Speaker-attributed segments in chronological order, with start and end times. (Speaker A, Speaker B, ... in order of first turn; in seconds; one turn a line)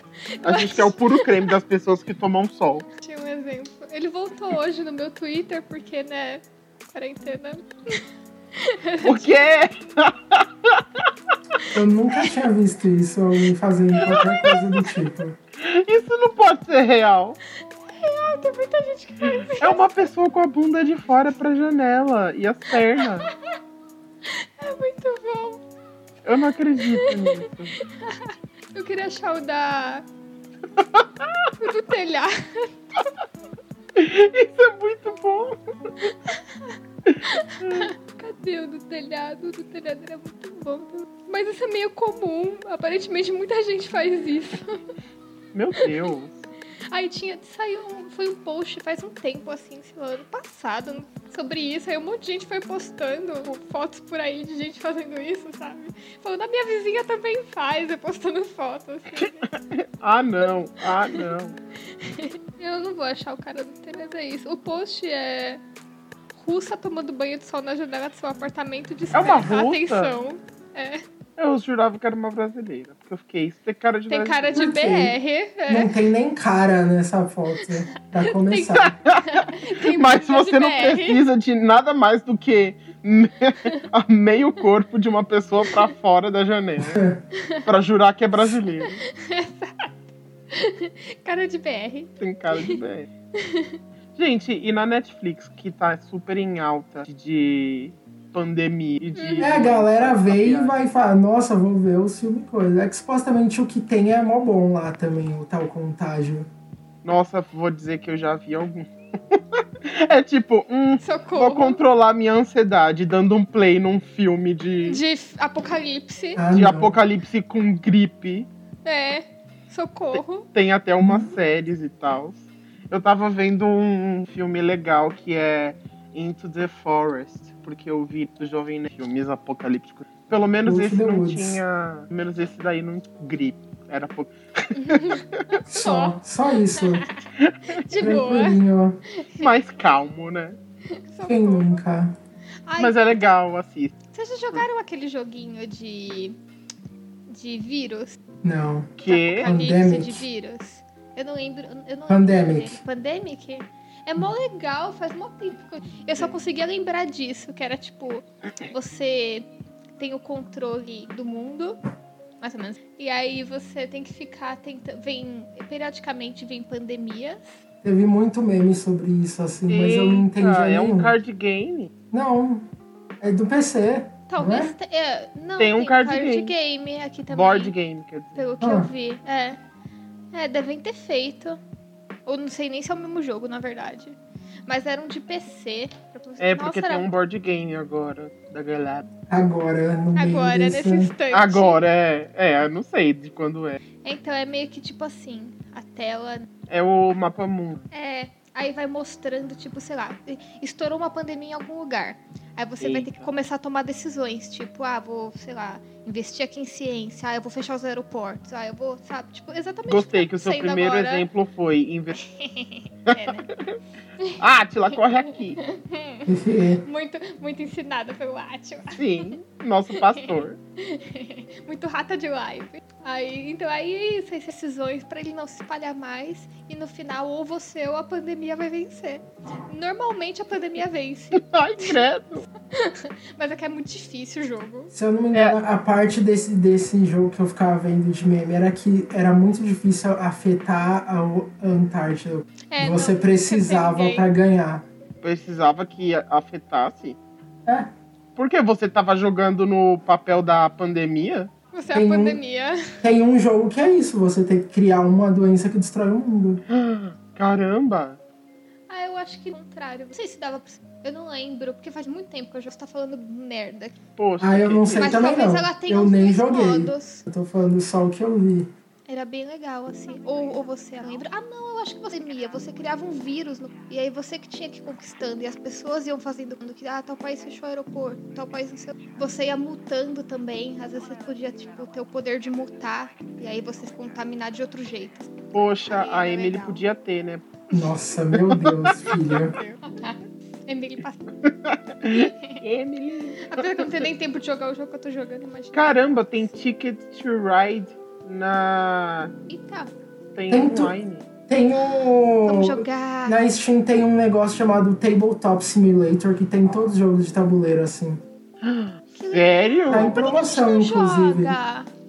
Speaker A: 0.3-1.5
Speaker B: 0.4-2.9
Speaker A: 3.0-8.0
Speaker A: 8.5-9.5
Speaker B: 9.0-11.1
Speaker A: 11.6-12.3
Speaker C: 11.7-15.4
Speaker A: 14.0-14.6
Speaker B: 14.0-14.6
Speaker B: 15.6-17.4
Speaker A: 17.9-20.1
Speaker B: 19.6-23.3
Speaker A: 24.2-25.6
Speaker B: 26.2-27.8
Speaker A: 26.8-30.1
Speaker B: 30.8-31.5
Speaker A: 31.6-33.1
Speaker B: 34.0-36.1
Speaker A: 36.3-44.8
Speaker B: 37.1-37.9
Speaker B: 45.5-46.5
Speaker A: 46.9-59.5
Speaker B: 59.2-61.6
Speaker A: 61.9-65.6
Speaker A: 66.4-71.0
Speaker B: 69.1-70.2
Speaker B: 71.4-74.7
Speaker A: 74.1-75.9
Speaker C: 74.5-75.2
Speaker C: 75.7-79.0
Speaker A: 77.6-81.2
Speaker B: 78.8-87.0
Speaker C: 86.8-87.2
Speaker A: 87.3-87.7
Speaker B: 87.7-89.0
Speaker A: 88.8-92.8
Speaker B: 92.2-93.1
Speaker A: 93.3-93.8
Speaker B: 94.2-100.8
Speaker A: 99.2-99.7
Speaker C: 99.4-106.5
Speaker B: 107.0-115.0
Speaker A: 111.0-111.8
Speaker A: 114.9-116.4
Speaker C: 116.4-117.0
Speaker B: 116.5-118.5
Speaker A: 118.8-120.5
Speaker B: 120.1-135.6
Speaker C: 121.0-121.3
Speaker C: 130.7-131.6
Speaker A: 134.7-138.6
Speaker C: 135.7-137.1
Speaker B: 137.4-137.8
Speaker C: 138.0-139.0
Speaker A: 139.2-139.5
Speaker B: 139.4-140.6
Speaker A: 140.9-141.8
Speaker C: 141.2-142.1
Speaker A: 142.7-143.0
Speaker B: 142.8-143.9
Speaker A: 144.1-146.4
Speaker A: 147.3-148.2
Speaker C: 148.4-150.3
Speaker B: 149.0-149.5
Speaker A: 149.1-161.8
Speaker C: 152.1-152.8
Speaker A: 162.4-167.5
Speaker C: 167.8-171.2
Speaker B: 169.7-171.9
Speaker C: 172.1-172.7
Speaker C: 173.2-174.7
Speaker A: 174.3-177.7
Speaker B: 175.6-176.5
Speaker B: 177.3-178.4
Speaker A: 178.4-179.6
Speaker C: 178.6-178.9
Speaker A: 180.3-181.6
Speaker A: 182.3-187.1
Speaker B: 186.4-189.1
Speaker C: 189.3-191.1
Speaker A: 190.2-191.8
Speaker B: 191.3-193.8
Speaker A: 194.0-196.5
Speaker B: 196.7-197.8
Speaker A: 197.9-211.3
Speaker B: 202.8-203.3
Speaker B: 209.9-212.2
Speaker A: 212.2-213.5
Speaker B: 213.1-213.8
Speaker B: 214.4-215.6
Speaker A: 215.6-216.3
Speaker C: 216.3-216.8
Speaker A: 216.8-219.3
Speaker B: 218.9-220.6
Speaker A: 220.0-231.9
Speaker B: 231.3-232.5
Speaker A: 232.7-234.9
Speaker C: 234.9-244.8
Speaker A: 242.7-244.3
Speaker B: 245.2-247.2
Speaker B: 248.4-251.5
Speaker A: 251.7-253.0
Speaker C: 251.9-252.4
Speaker C: 253.0-256.6
Speaker B: 256.7-258.2
Speaker A: 258.9-264.0
Speaker B: 264.2-265.3
Speaker C: 264.4-268.7
Speaker A: 265.0-267.2
Speaker A: 269.1-286.8
Speaker B: 285.5-287.4
Speaker C: 287.7-289.6
Speaker B: 288.3-289.1
Speaker A: 289.3-291.2
Speaker B: 291.4-294.1
Speaker A: 292.1-292.6
Speaker A: 293.4-296.0
Speaker B: 295.7-299.3
Speaker A: 299.5-299.9
Speaker B: 300.4-301.3
Speaker C: 300.5-300.9
Speaker C: 301.5-308.2
Speaker A: 302.4-303.4
Speaker B: 308.6-310.3
Speaker A: 309.2-311.9
Speaker C: 309.9-311.6